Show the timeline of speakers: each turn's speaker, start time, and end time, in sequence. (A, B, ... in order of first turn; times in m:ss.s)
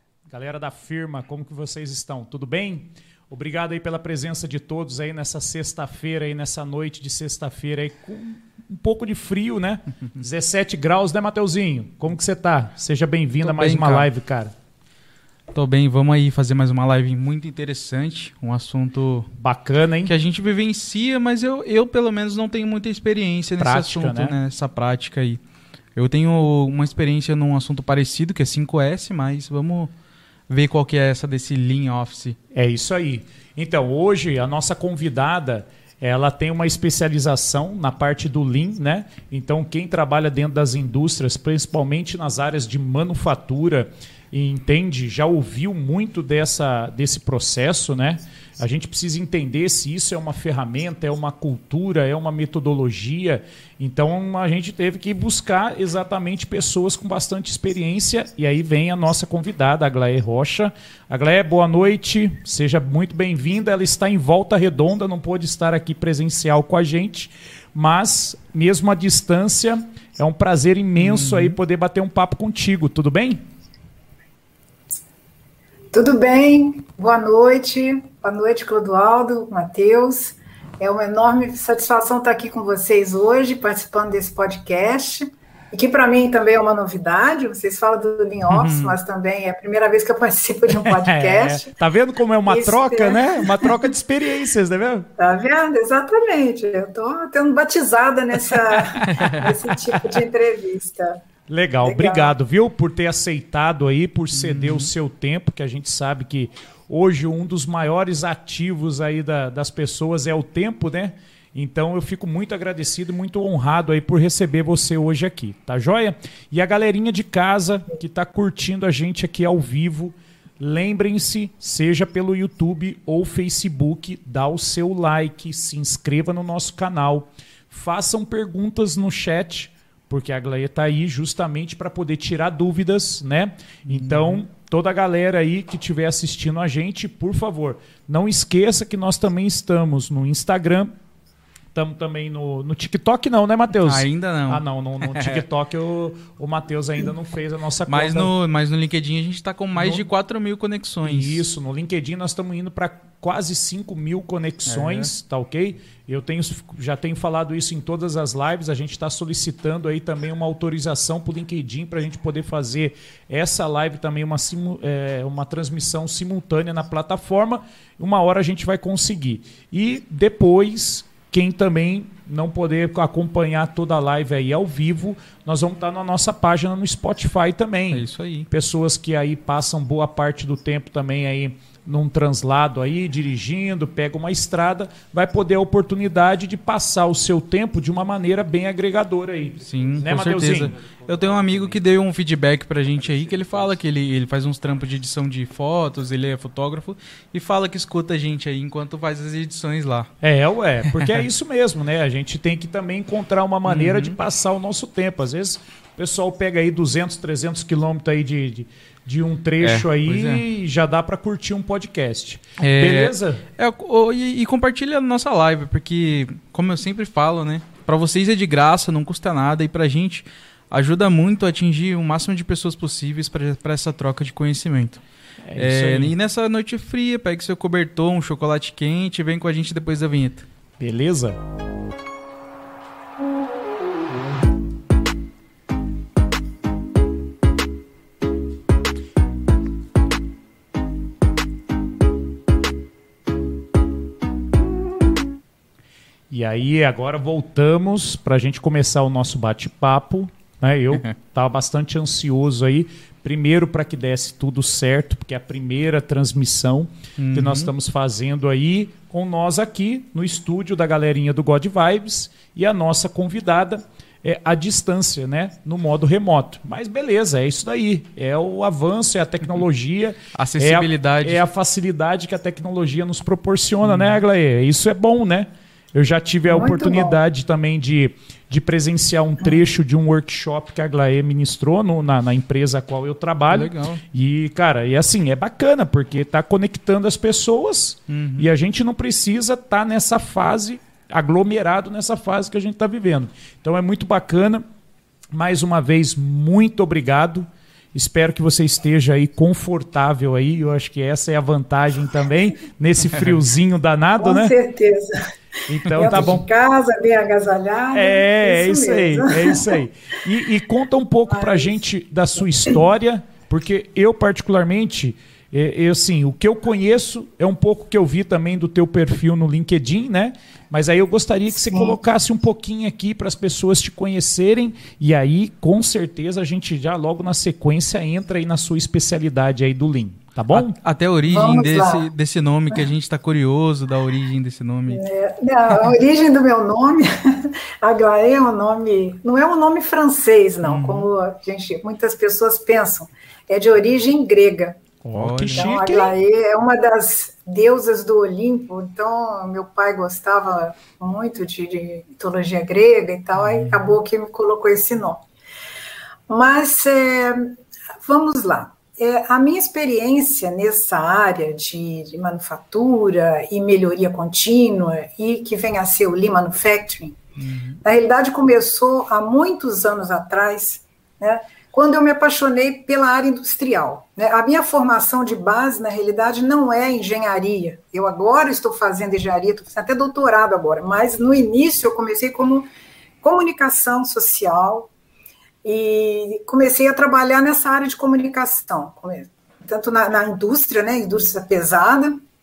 0:00.3-0:14.5 A
0:13.4-0:14.1 B
0:15.5-0:19.3 B
0:19.4-0:20.1 A
0:20.0-0:25.4 B
0:23.6-0:24.4 A
0:26.0-0:29.9 B
0:30.5-0:32.4 B
0:32.5-1:13.4 A
1:11.0-1:11.6 B
1:15.9-1:31.7 C
1:28.5-1:28.9 B
1:30.7-1:35.1 A
1:32.5-1:33.9 C
1:35.2-1:41.2 C
1:39.0-1:39.5 B
1:41.5-2:20.9 A
1:41.8-1:42.3 C
1:44.3-1:44.9 B
2:13.9-2:14.4 B
2:21.7-2:28.3 A
2:23.7-2:25.4 B
2:27.9-2:31.4 B
2:29.8-2:30.0 A
2:31.0-3:10.7 A
2:34.7-2:35.1 B
2:57.9-2:58.5 B
3:09.6-3:20.1 B
3:20.2-3:33.4 A
3:23.6-3:24.2 B
3:29.6-3:30.4 B
3:32.6-3:45.0 B
3:45.4-3:46.1 A
3:45.6-3:50.5 B
3:50.8-3:51.4 A
4:06.3-4:54.6 A
4:17.2-4:17.7 B
4:30.3-4:31.4 B
4:33.8-4:34.2 B
4:36.4-4:37.2 C
4:43.5-4:44.0 B
4:48.1-4:48.5 B
4:55.3-5:04.6 A
5:04.2-5:05.2 C
5:05.7-5:06.4 A
5:05.9-5:09.8 C
5:06.0-5:06.3 B
5:07.9-5:30.8 A
5:11.3-5:11.8 C
5:21.5-5:22.0 C
5:30.5-5:35.0 B
5:31.2-5:32.1 C
5:34.9-5:44.8 C
5:40.6-5:41.0 B
5:45.0-5:46.1 A
5:45.1-5:45.7 B
5:45.5-5:55.2 C
5:53.4-5:53.8 B
5:56.3-6:07.2 C
6:07.4-6:07.8 B
6:07.8-6:22.7 C
6:23.2-6:24.9 C
6:25.6-6:32.2 C